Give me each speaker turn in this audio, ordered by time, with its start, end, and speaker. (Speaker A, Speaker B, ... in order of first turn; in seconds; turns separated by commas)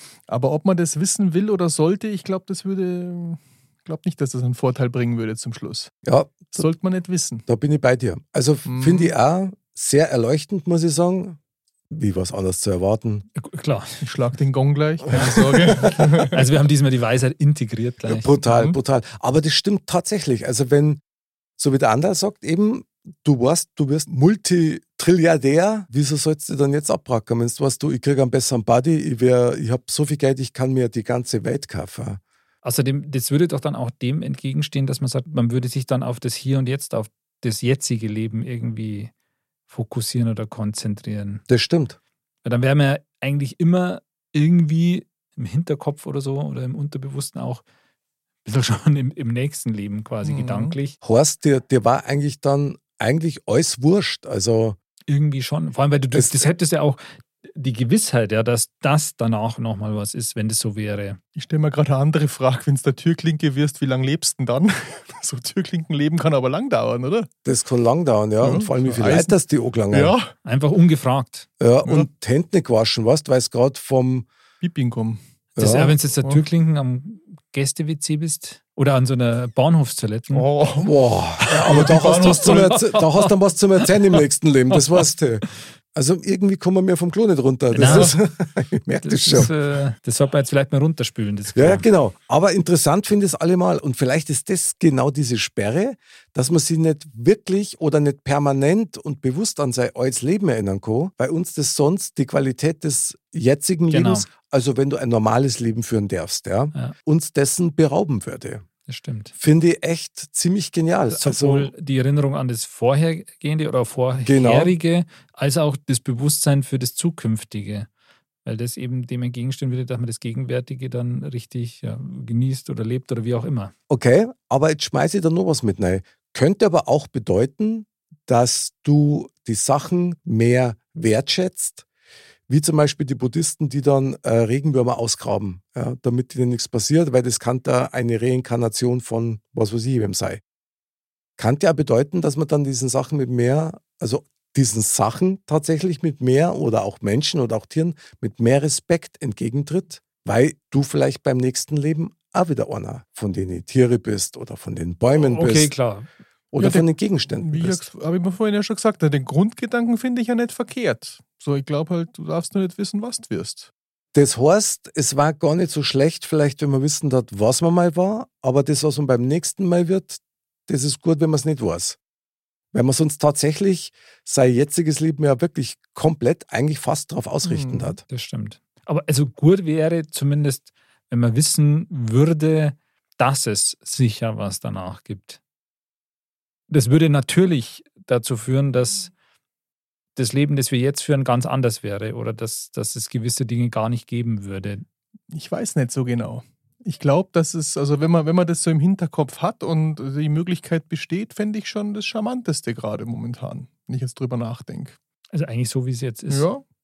Speaker A: 0.3-5.9, Speaker B: 6.0-6.6, Speaker A: 6.5-7.5, Speaker B: 7.5-11.4, Speaker A: 8.6-9.1, Speaker B: 11.9-13.2, Speaker C: 13.3-14.0, Speaker A: 14.0-16.4, Speaker C: 16.3-18.3, Speaker B: 18.1-21.0, Speaker A: 18.5-18.7, Speaker B: 21.6-32.2, Speaker C: 32.6-39.1, Speaker C: 39.7-41.4, Speaker B: 41.5-42.0, Speaker C: 42.4-47.6, Speaker C: 48.4-50.9, Speaker A: 50.2-50.8, Speaker B: 51.0-54.8, Speaker C: 55.1-61.2, Speaker B: 56.1-56.5, Speaker A: 61.3-67.3, Speaker B: 67.4-70.1, Speaker A: 68.4-69.4, Speaker A: 69.9-70.3, Speaker C: 70.4-71.5, Speaker B: 71.6-74.3, Speaker A: 74.6-75.2, Speaker B: 75.6-76.0, Speaker C: 75.6-80.5, Speaker A: 80.3-82.8, Speaker B: 80.8-89.5, Speaker C: 81.6-83.3, Speaker C: 87.7-88.2, Speaker A: 87.8-88.2, Speaker C: 89.0-91.9, Speaker B: 91.5-108.7, Speaker C: 103.9-104.3, Speaker C: 108.8-109.3, Speaker B: 109.4-111.7, Speaker C: 111.1-117.9, Speaker B: 114.2-114.7, Speaker C: 118.4-123.7, Speaker B: 123.9-131.8, Speaker B: 132.5-140.4, Speaker B: 141.4-155.7, Speaker C: 155.1-156.1, Speaker B: 156.5-157.9, Speaker A: 156.6-163.7, Speaker B: 164.1-172.0, Speaker B: 172.7-178.0, Speaker A: 177.4-178.0, Speaker C: 178.1-185.4, Speaker C: 186.7-189.1, Speaker C: 190.2-194.8, Speaker A: 195.3-204.9, Speaker C: 205.3-206.5, Speaker A: 206.3-206.6